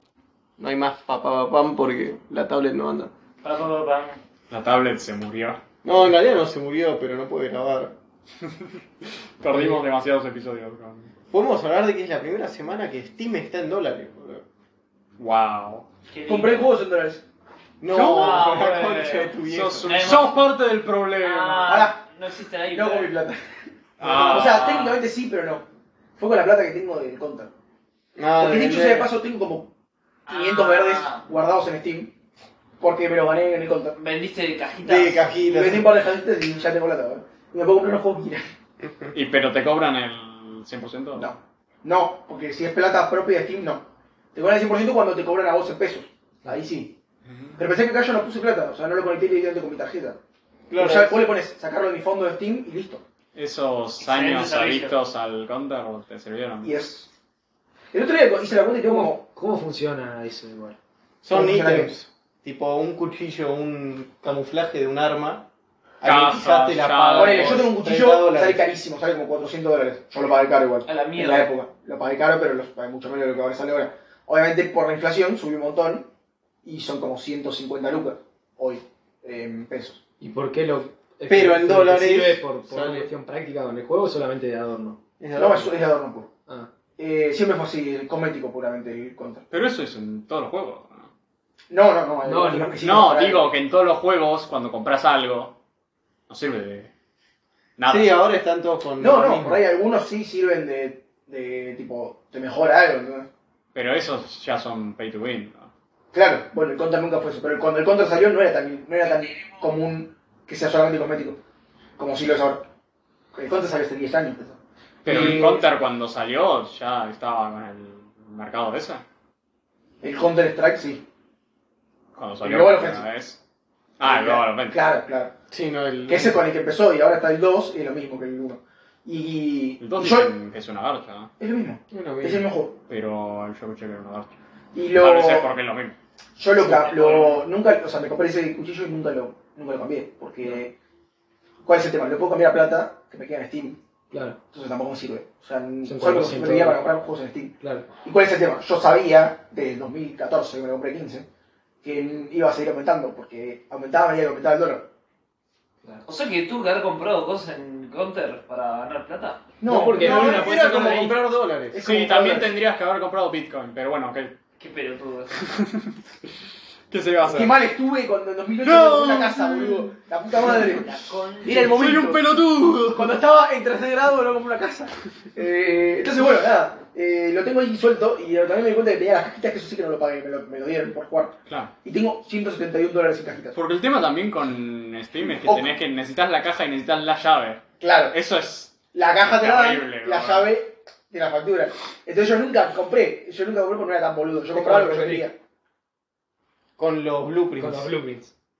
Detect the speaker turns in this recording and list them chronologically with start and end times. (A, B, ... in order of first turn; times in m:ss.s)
0:00.6-0:03.1 A
0:03.4-0:04.2 B
0:04.5-0:05.6 C
0:05.8-0:08.0 A
0:09.4-0:11.1 C
0:11.3-0:14.4 A
0:15.2-0:15.9 C
0:16.1-0:16.7 B
0:16.3-0:17.2 D
0:17.8-0:20.0 A
0:18.0-0:18.5 C
0:18.0-0:20.4 B
0:18.0-0:18.2 D
0:19.4-0:21.8 C
0:21.2-0:23.1 B
0:21.7-0:22.0 D
0:22.7-0:25.7 D
0:24.0-0:25.0 C
0:24.0-0:24.3 A
0:26.2-0:27.5 D
0:28.2-0:29.1 A
0:28.4-0:29.7 D
0:30.3-0:31.2 B
0:30.3-0:32.1 D
0:32.8-0:34.0 D
0:34.0-0:35.4 B
0:34.8-0:35.9 A
0:35.4-0:38.5 D
0:39.1-0:41.3 C
0:41.2-0:47.0 D
0:47.3-0:47.6 C
0:47.6-0:50.2 D
0:50.7-0:51.2 A
0:50.8-0:53.0 D
0:53.3-0:56.7 C
0:54.0-0:55.0 B
0:56.6-0:57.1 D
0:57.9-0:59.2 D
0:58.8-1:00.8 E
1:01.2-1:05.5 A
1:01.3-1:01.9 D
1:06.0-1:08.6 A
1:06.0-1:07.7 C
1:07.1-1:16.1 D
1:10.8-1:11.5 B
1:16.6-1:20.0 D
1:20.2-1:25.0 E
1:21.3-1:23.1 A
1:25.2-1:25.7 A
1:25.4-1:26.3 D
1:27.0-1:29.4 D
1:29.5-1:31.1 C
1:31.7-1:33.5 D
1:32.2-1:32.8 E
1:32.8-1:35.6 C
1:36.3-1:36.9 C
1:37.8-1:38.1 C
1:37.9-1:39.6 A
1:39.0-1:43.3 D
1:43.7-1:45.7 C
1:46.1-1:51.4 D
1:52.0-1:52.7 D
1:53.3-1:55.6 D
1:55.0-1:59.0 C
2:00.0-2:01.0 D
2:02.1-2:03.4 C
2:02.4-2:03.0 D
2:04.0-2:04.8 C
2:04.0-2:05.3 D
2:05.5-2:06.4 A
2:06.1-2:10.3 D
2:09.8-2:11.3 C
2:11.4-2:12.8 D
2:11.9-2:12.5 A
2:12.9-2:14.3 C
2:14.7-2:15.5 D
2:15.0-2:16.0 C
2:16.4-2:20.7 D
2:16.6-2:17.4 B
2:21.6-2:23.8 D
2:24.1-2:24.4 E
2:24.5-2:31.2 D
2:25.8-2:26.8 E
2:27.6-2:27.9 E
2:31.8-2:34.8 D
2:35.9-2:39.5 B
2:39.6-2:41.2 D
2:39.6-2:41.1 E
2:39.9-2:41.8 A
2:41.7-2:42.5 D
2:41.8-2:44.3 C
2:44.6-2:45.5 B
2:45.4-2:46.0 C
2:46.9-2:47.6 C
2:47.2-2:52.3 D
2:48.6-2:49.9 C
2:50.7-2:51.7 B
2:51.5-2:53.2 C
2:52.9-3:03.6 D
3:01.5-3:01.7 C
3:03.5-3:08.8 C
3:07.8-3:08.2 D
3:08.9-3:15.4 D
3:09.4-3:10.5 C
3:14.5-3:15.3 E
3:16.8-3:17.9 A
3:17.6-3:18.3 E